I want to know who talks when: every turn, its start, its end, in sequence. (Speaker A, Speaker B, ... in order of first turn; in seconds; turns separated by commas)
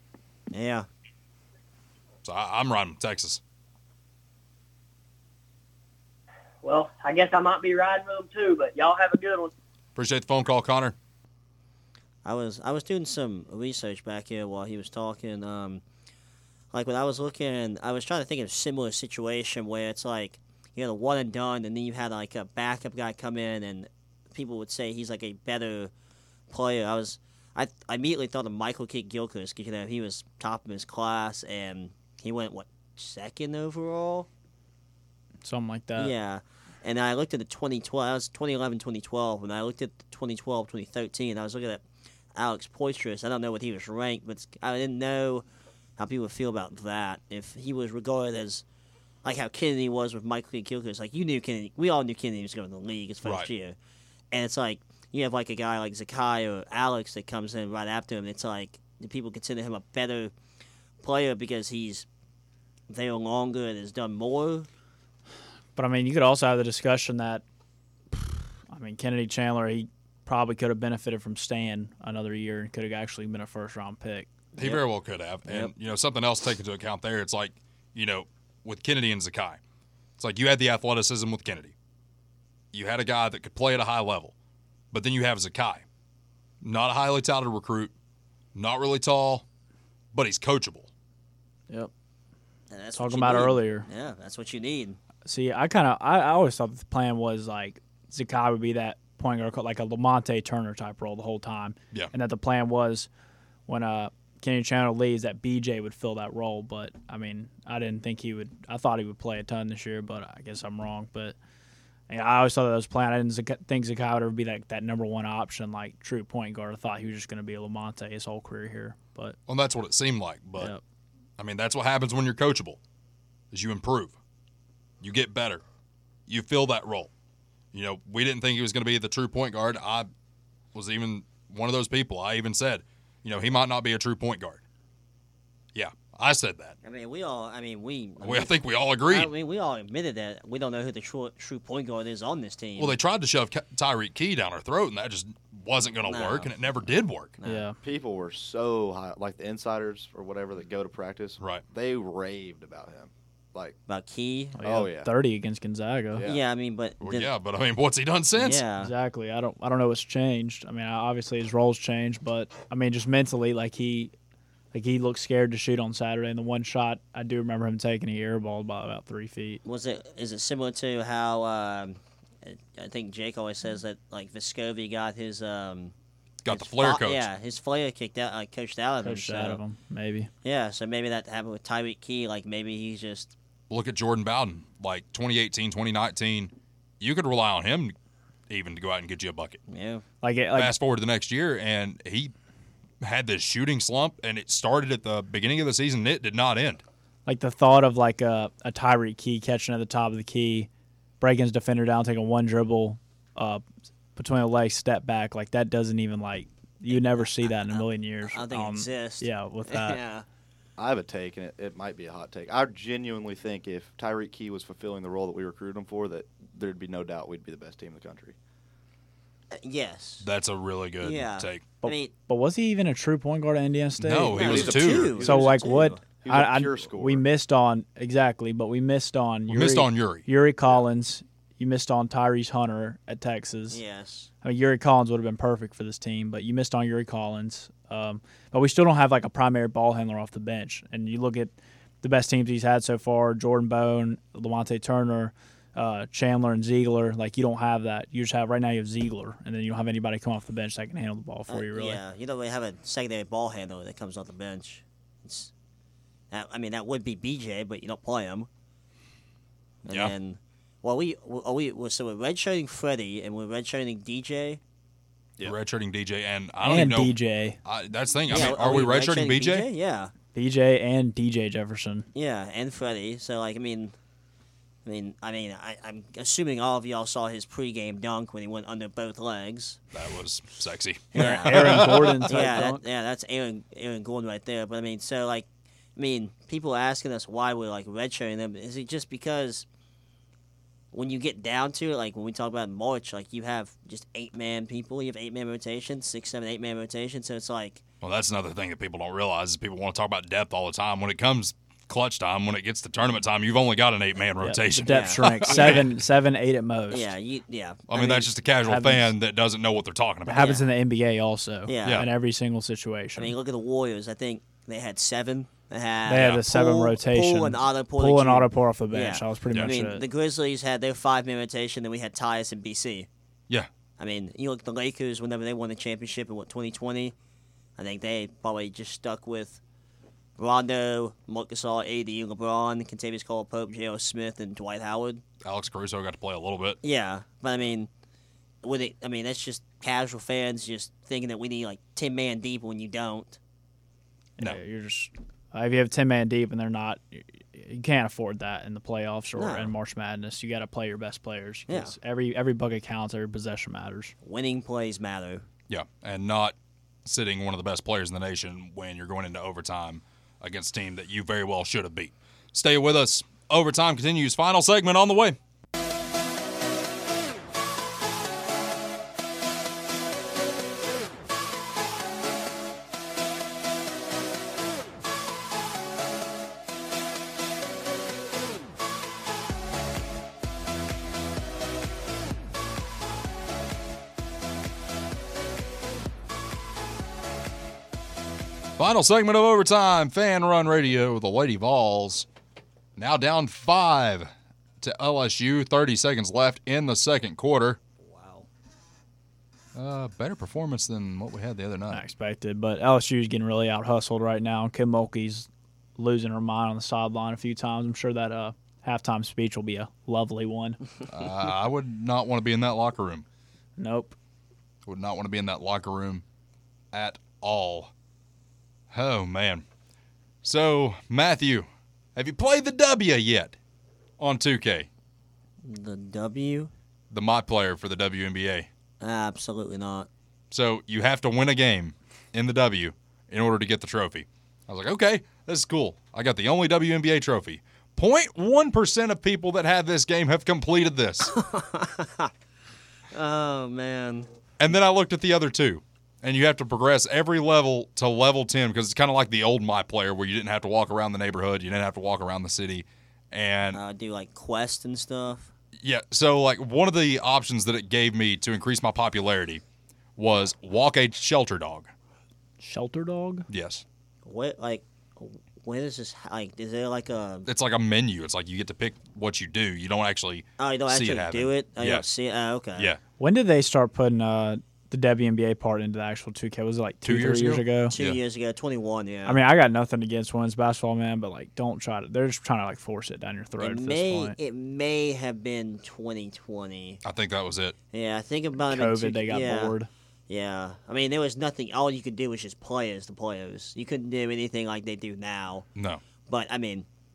Speaker A: 0.5-0.9, Speaker B: 2.2-3.4, Speaker C: 6.6-9.5, Speaker B: 9.9-10.9, Speaker A: 12.2-15.8, Speaker A: 16.7-25.9, Speaker A: 26.5-34.3, Speaker D: 35.4-36.1, Speaker A: 36.0-41.8, Speaker A: 42.3-45.4, Speaker A: 46.0-48.6, Speaker A: 49.2-53.8, Speaker A: 54.3-60.3, Speaker A: 61.0-62.0, Speaker A: 62.9-64.7, Speaker D: 65.8-67.4, Speaker D: 68.7-74.3, Speaker A: 74.5-74.8, Speaker B: 74.6-79.6, Speaker A: 75.5-75.7, Speaker B: 80.2-81.7, Speaker B: 82.7-84.3, Speaker B: 84.9-85.8, Speaker B: 86.6-87.9, Speaker B: 88.5-89.4, Speaker B: 90.1-90.9, Speaker A: 92.7-95.0, Speaker D: 93.0-93.9, Speaker D: 95.2-103.1, Speaker D: 103.7-111.3, Speaker D: 112.1-119.4, Speaker B: 119.5-120.7, Speaker B: 121.4-122.8, Speaker B: 123.5-124.1, Speaker B: 125.0-125.6, Speaker B: 126.3-127.1, Speaker B: 127.7-130.1, Speaker B: 130.7-134.6, Speaker B: 135.7-136.8, Speaker A: 136.8-138.5, Speaker B: 138.2-139.3, Speaker A: 139.1-143.0, Speaker B: 142.8-147.3, Speaker A: 146.0-146.5, Speaker A: 147.4-147.6, Speaker D: 147.4-147.8, Speaker E: 147.8-153.8, Speaker A: 153.9-154.6, Speaker D: 154.6-156.2, Speaker E: 154.6-155.1, Speaker E: 156.1-156.4, Speaker A: 156.2-157.3, Speaker B: 157.0-158.6, Speaker A: 158.3-158.9, Speaker D: 158.8-164.1, Speaker D: 164.7-169.6, Speaker A: 169.6-175.9, Speaker B: 176.4-177.2, Speaker A: 176.5-179.6, Speaker D: 179.0-180.3, Speaker A: 180.4-183.3, Speaker B: 183.7-187.9, Speaker B: 188.5-189.6, Speaker A: 189.7-190.0, Speaker D: 190.2-190.7, Speaker B: 190.5-192.3, Speaker B: 193.0-196.8, Speaker D: 197.2-200.7, Speaker D: 201.2-203.6, Speaker D: 204.2-210.0, Speaker A: 206.9-210.2, Speaker E: 210.8-218.3, Speaker A: 219.5-220.3, Speaker B: 220.2-221.6, Speaker A: 221.0-222.1, Speaker D: 221.8-233.8, Speaker B: 224.0-225.1, Speaker A: 224.3-226.0, Speaker E: 224.3-227.2, Speaker B: 229.5-230.2, Speaker A: 233.7-234.3, Speaker D: 234.4-252.0, Speaker A: 251.5-255.5, Speaker A: 256.3-258.5, Speaker A: 259.8-264.6, Speaker B: 259.9-260.1, Speaker B: 265.4-269.7, Speaker D: 266.6-267.6, Speaker A: 268.3-270.1, Speaker D: 270.3-272.1, Speaker A: 272.1-273.9, Speaker A: 274.8-279.8, Speaker B: 279.9-282.4, Speaker A: 281.1-289.6, Speaker D: 281.1-282.8, Speaker A: 290.9-297.8, Speaker B: 298.0-305.9, Speaker D: 304.4-307.1, Speaker A: 304.9-305.9, Speaker A: 306.9-308.3, Speaker B: 307.9-310.5, Speaker D: 308.6-309.1, Speaker D: 310.2-313.3, Speaker A: 310.3-310.6, Speaker A: 311.7-312.1, Speaker A: 313.2-323.1, Speaker D: 316.1-320.0, Speaker A: 324.0-327.1, Speaker A: 327.8-329.6, Speaker A: 330.4-335.2, Speaker B: 335.4-336.8, Speaker A: 336.8-337.9, Speaker A: 338.6-343.4, Speaker D: 344.4-354.1, Speaker A: 349.4-349.7, Speaker A: 351.7-351.9, Speaker A: 354.2-355.4, Speaker B: 355.7-365.4, Speaker B: 388.8-392.3, Speaker B: 392.9-394.3, Speaker B: 394.8-397.8, Speaker A: 398.0-398.5, Speaker B: 399.7-402.0, Speaker D: 401.9-410.8, Speaker B: 411.1-413.2, Speaker D: 413.8-414.1, Speaker B: 414.8-416.2, Speaker B: 416.9-417.9, Speaker B: 418.9-419.6, Speaker B: 420.4-423.6, Speaker B: 424.2-424.9, Speaker A: 425.6-426.7, Speaker B: 427.1-428.7, Speaker A: 429.0-430.1, Speaker B: 430.5-441.3, Speaker A: 441.3-442.3, Speaker A: 443.1-444.3, Speaker B: 444.6-453.8, Speaker A: 453.7-455.5, Speaker B: 455.8-459.6, Speaker B: 460.2-461.9, Speaker D: 462.6-463.5, Speaker B: 463.5-463.8, Speaker A: 464.2-467.5, Speaker B: 467.4-472.0, Speaker A: 470.6-472.9, Speaker D: 473.2-477.9, Speaker B: 477.0-478.2, Speaker A: 477.9-479.4, Speaker D: 479.2-484.4, Speaker A: 483.6-487.0, Speaker B: 487.0-487.8, Speaker A: 487.9-489.8, Speaker D: 488.6-489.9, Speaker A: 490.3-495.7, Speaker B: 495.8-496.0, Speaker A: 496.2-496.9